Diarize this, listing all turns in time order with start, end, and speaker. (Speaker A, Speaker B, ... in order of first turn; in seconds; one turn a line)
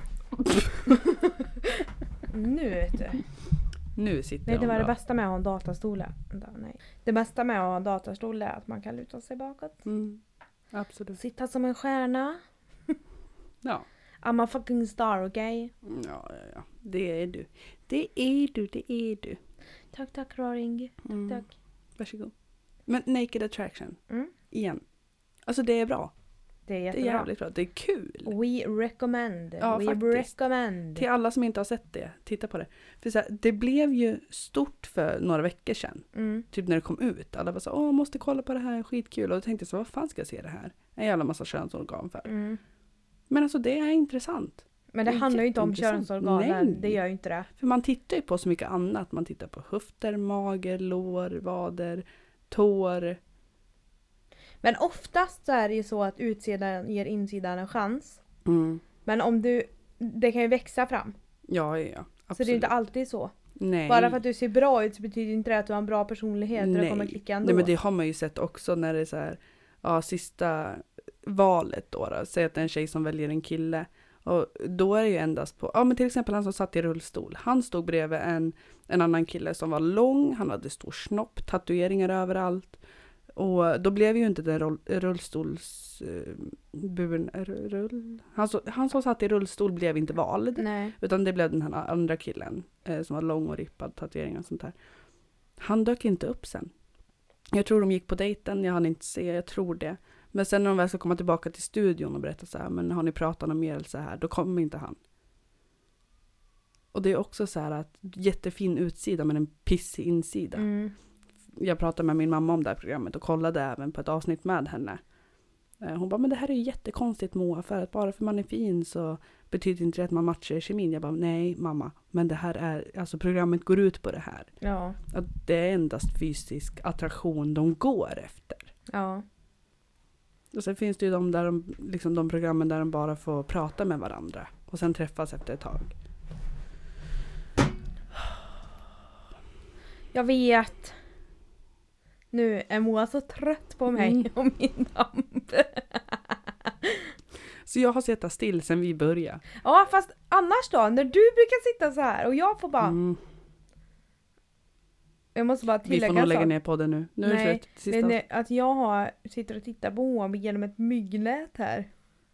Speaker A: 1.0-1.7
Speaker A: 2.3-3.2
Speaker B: 4.0-4.9
Speaker A: 4.5-9.8
Speaker B: 9.8-10.2
Speaker B: 10.7-11.2
Speaker A: 11.2-12.9
Speaker A: 14.2-15.7
Speaker B: 15.8-19.4
Speaker A: 19.9-21.5
Speaker B: 21.1-21.4
Speaker B: 22.0-22.3
Speaker B: 22.9-24.0
Speaker B: 24.5-24.8
Speaker B: 25.4-26.1
Speaker A: 26.7-27.3
Speaker B: 26.9-28.3
Speaker A: 28.2-31.1
Speaker B: 29.6-30.3
Speaker B: 30.9-42.3
Speaker A: 36.1-36.4
Speaker A: 42.2-42.6
Speaker B: 43.3-47.0
Speaker A: 44.9-47.5
Speaker B: 47.5-53.2
Speaker A: 54.6-58.2
Speaker B: 58.4-58.8
Speaker A: 59.0-61.1
Speaker B: 61.5-62.7
Speaker A: 62.4-63.3
Speaker B: 63.6-64.2
Speaker A: 63.9-67.7
Speaker B: 66.6-82.8
Speaker B: 83.3-94.7
Speaker A: 90.6-90.9
Speaker B: 95.6-96.7
Speaker B: 97.5-105.0
Speaker B: 106.9-110.7
Speaker A: 110.5-110.9
Speaker B: 111.5-115.0
Speaker B: 115.8-124.5
Speaker A: 124.6-125.0
Speaker B: 125.1-128.7
Speaker A: 128.9-129.2
Speaker B: 130.5-135.9
Speaker A: 140.1-140.9
Speaker A: 142.3-147.1
Speaker B: 143.9-144.2
Speaker B: 147.6-149.4
Speaker A: 149.6-153.0
Speaker B: 152.8-153.2
Speaker A: 155.3-156.5
Speaker B: 155.8-158.2
Speaker A: 157.2-161.9